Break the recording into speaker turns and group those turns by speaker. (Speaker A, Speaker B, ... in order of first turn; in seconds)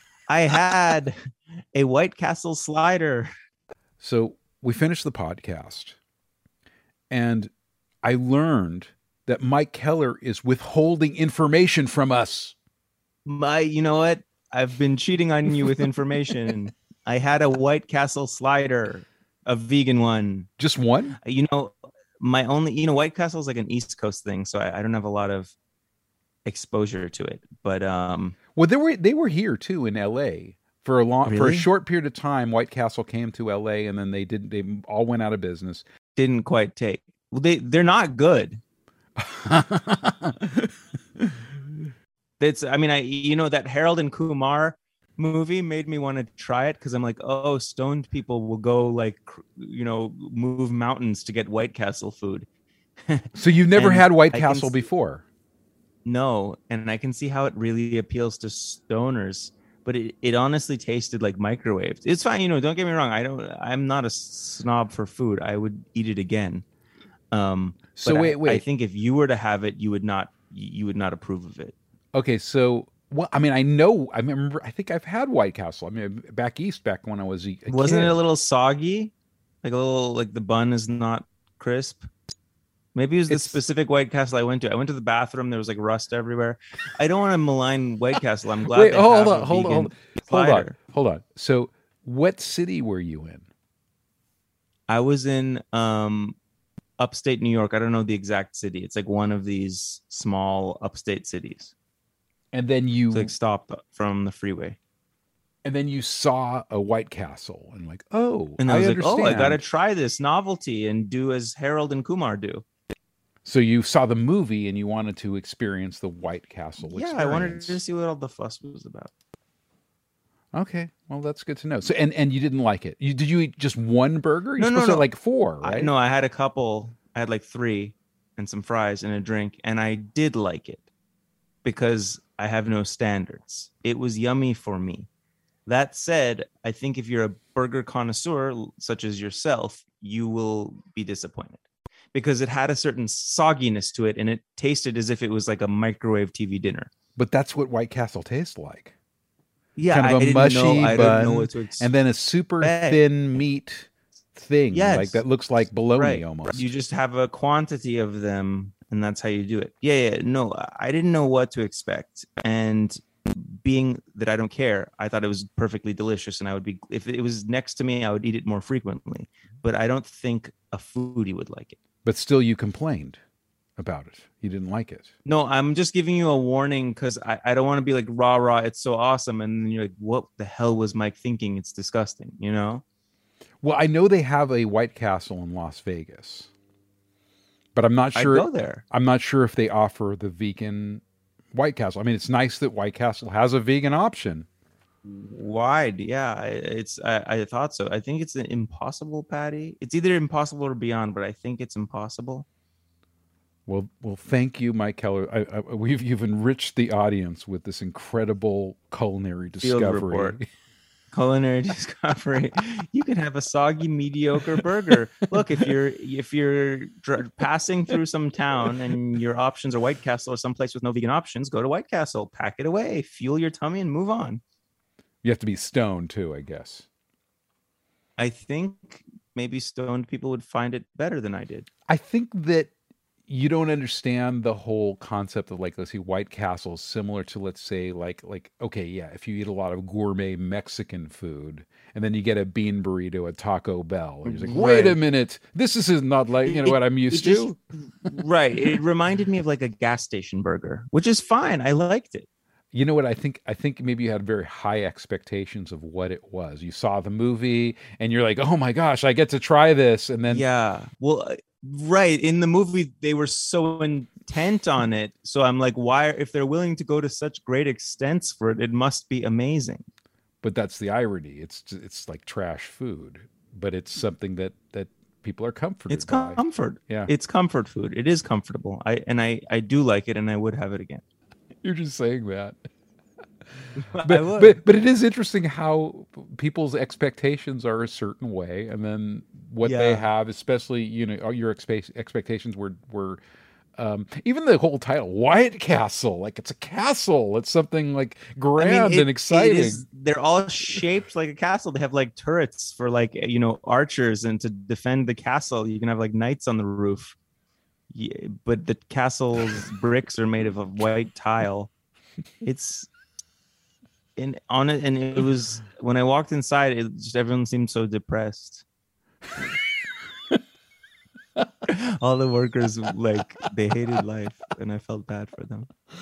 Speaker A: 0.3-1.1, 1.7-3.3, 13.2-20.5, 21.2-25.6, 26.4-28.4, 31.2-31.7, 36.1-38.6, 42.4-52.5, 53.1-54.8, 56.0-66.7, 67.3-71.8, 77.7-82.1, 82.9-90.8, 94.9-96.4, 97.0-101.7, 103.1-104.8, 108.6-112.7, 116.8-119.1, 124.6-125.1, 125.6-130.8, 131.6-135.1, 135.7-141.6, 142.1-146.9, 149.8-151.9, 152.6-153.0, 154.7-155.2, 155.9-171.8, 175.2-182.8, 188.1-188.8, 195.1-202.5, 209.6-210.4, 211.1-224.4, 228.2-231.7, 244.2-245.0, 246.4-252.3, 260.3-269.8, 275.9-281.0, 283.8-284.6, 289.6-290.1, 298.6-307.2, 307.9-311.7, 312.4-312.9, 314.2-318.6, 321.7-325.7
Speaker B: 4.0-6.0, 7.1-7.5, 8.0-12.5, 20.6-21.2, 28.6-35.8, 39.2-40.5, 53.4-55.2, 67.9-68.7, 72.1-78.2, 83.3-83.6, 88.7-93.5, 102.5-103.3, 105.6-109.6, 113.4-117.8, 120.5-125.9, 147.2-148.9, 149.9-156.6, 172.1-173.2, 173.8-175.1, 183.6-186.5, 187.8-191.0, 191.5-194.5, 203.7-210.4, 225.2-226.9, 231.9-232.7, 233.3-248.2, 252.7-260.4, 270.4-277.1, 281.6-282.6, 284.0-293.2, 293.8-299.8